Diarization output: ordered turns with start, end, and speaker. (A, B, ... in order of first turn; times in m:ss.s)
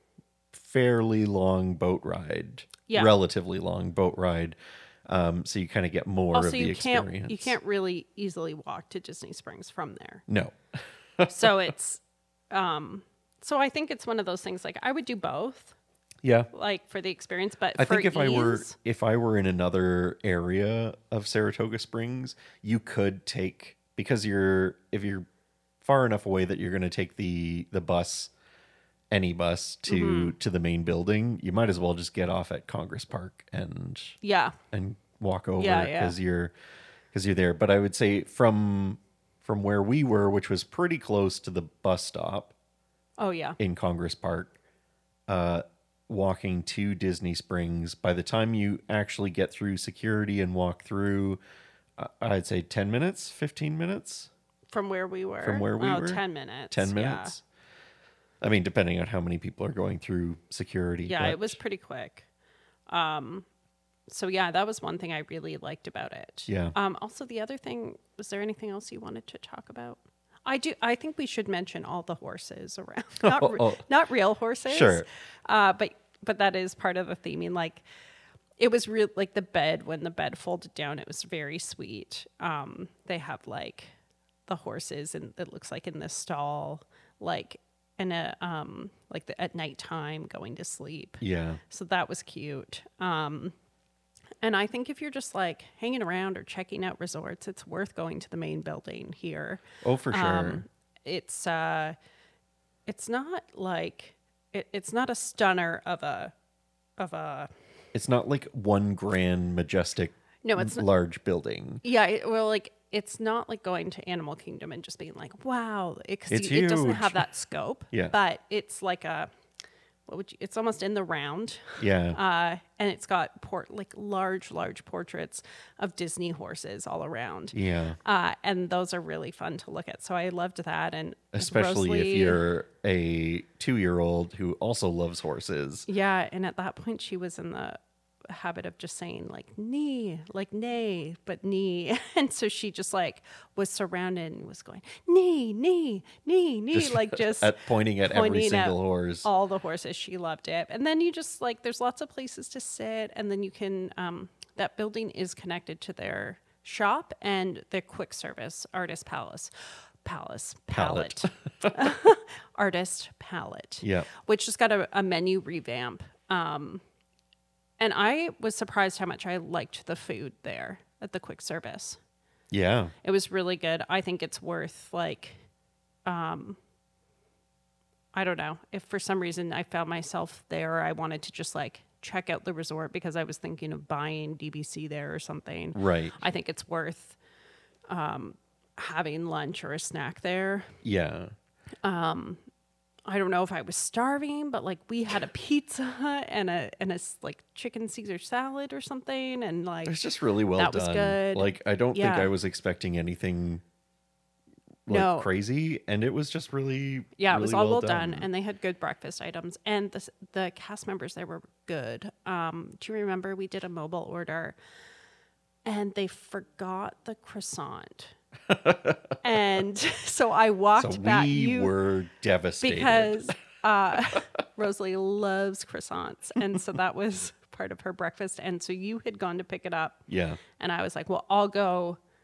0:00.5-0:07.6 A
0:02.9-0:03.1 B
0:06.3-0:10.2 B
0:10.3-0:10.6 A
0:11.2-0:11.5 A
0:11.3-0:15.7 B
0:16.2-0:16.5 A
0:16.5-0:18.7 B
0:17.8-0:25.2 A
0:25.8-0:28.3 A
0:29.1-0:34.2 A
0:29.8-0:30.3 B
0:34.2-0:34.6 B
0:34.7-0:36.5 A
0:35.6-0:36.1 B
0:37.1-0:42.5 A
0:43.2-0:43.6 B
0:43.6-0:44.5 A
0:45.3-0:51.4 A
0:52.0-0:54.3 A
0:54.7-0:57.3 B
0:55.4-0:57.4 A
0:58.4-1:01.6 A
1:01.1-1:02.3 B
1:02.9-1:03.5 B
1:04.1-1:17.8 B
1:06.5-1:06.7 A
1:13.2-1:13.8 A
1:14.7-1:15.0 A
1:18.6-1:23.9 B
1:24.5-1:33.5 B
1:31.2-1:31.6 A
1:34.4-1:42.0 B
1:39.8-1:40.6 A
1:42.9-1:46.3 B
1:47.0-1:47.5 B
1:47.9-1:51.8 A
1:50.4-1:50.8 B
1:51.8-1:59.3 B
1:56.3-1:57.3 A
2:00.1-2:12.4 B
2:01.8-2:02.2 A
2:07.5-2:08.0 A
2:11.3-2:15.9 A
2:15.9-2:39.5 B
2:26.7-2:29.3 A
2:40.0-2:46.8 B
2:40.7-2:41.8 A
2:43.8-2:44.1 A
2:47.8-2:52.0 B
2:52.5-2:52.9 A
2:53.0-2:55.4 B
2:56.0-2:56.6 B
2:58.1-3:07.2 B
3:05.7-3:06.2 A
3:07.9-3:10.7 B
3:10.8-3:11.3 A
3:11.8-3:12.4 B
3:13.1-3:20.0 B
3:19.8-3:23.6 A
3:20.6-3:22.3 B
3:24.8-3:28.3 A
3:24.9-3:25.3 B
3:27.2-3:34.6 B
3:35.6-3:38.1 B
3:38.5-3:39.1 A
3:39.2-3:41.7 B
3:40.8-3:43.2 A
3:42.6-3:50.1 B
3:50.1-3:50.4 A
3:50.6-3:52.0 B